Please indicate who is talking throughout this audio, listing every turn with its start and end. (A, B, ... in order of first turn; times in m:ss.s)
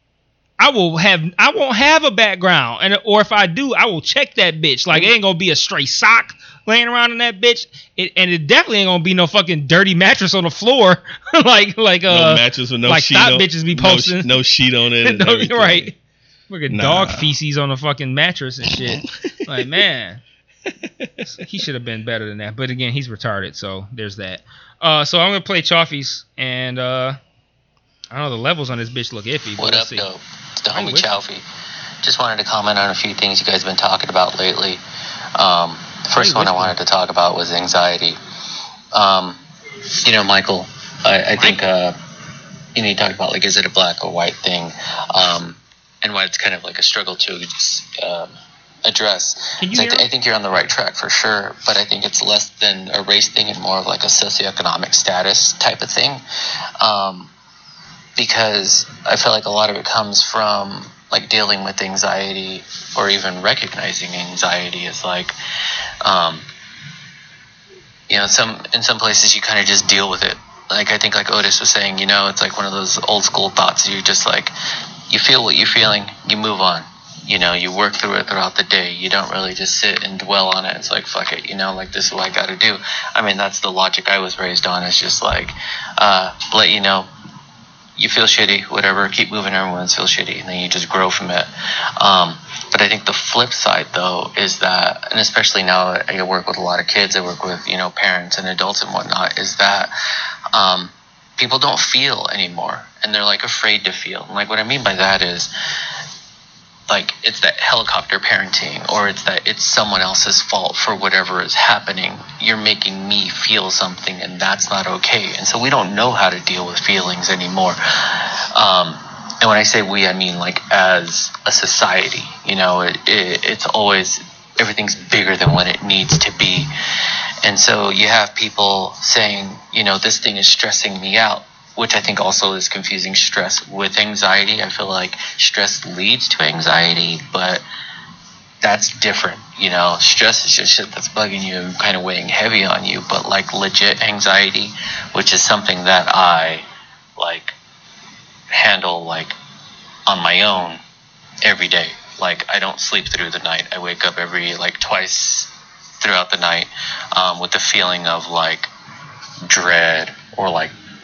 0:00.6-0:14.3 A
0:12.1-0:15.9 B
0:15.0-0:15.9 A
0:16.5-0:20.2 A
0:16.7-0:17.3 B
0:18.7-0:19.7 B
0:20.8-0:21.3 B
0:21.2-0:27.2 A
0:28.1-0:30.0 A
0:29.6-0:31.4 C
0:30.7-0:31.1 A
0:32.0-0:34.8 C
0:35.4-0:38.2 C
0:36.2-0:36.7 A
0:38.9-0:39.4 C
0:40.0-0:42.0 C
0:42.7-0:48.3 C
0:48.8-0:56.2 C
0:49.6-0:50.1 A
0:56.8-0:57.3 C
0:58.2-1:05.3 C
1:06.0-1:06.4 C
1:08.1-1:14.5 C
1:15.1-1:27.1 C
1:28.0-1:39.9 C
1:40.5-1:45.5 C
1:46.9-2:06.7 C
2:07.4-2:17.6 C
2:18.6-2:26.6 C
2:27.2-2:27.5 C
2:28.5-2:29.3 C
2:30.1-2:30.8 C
2:31.4-2:38.7 C
2:39.5-2:40.7 C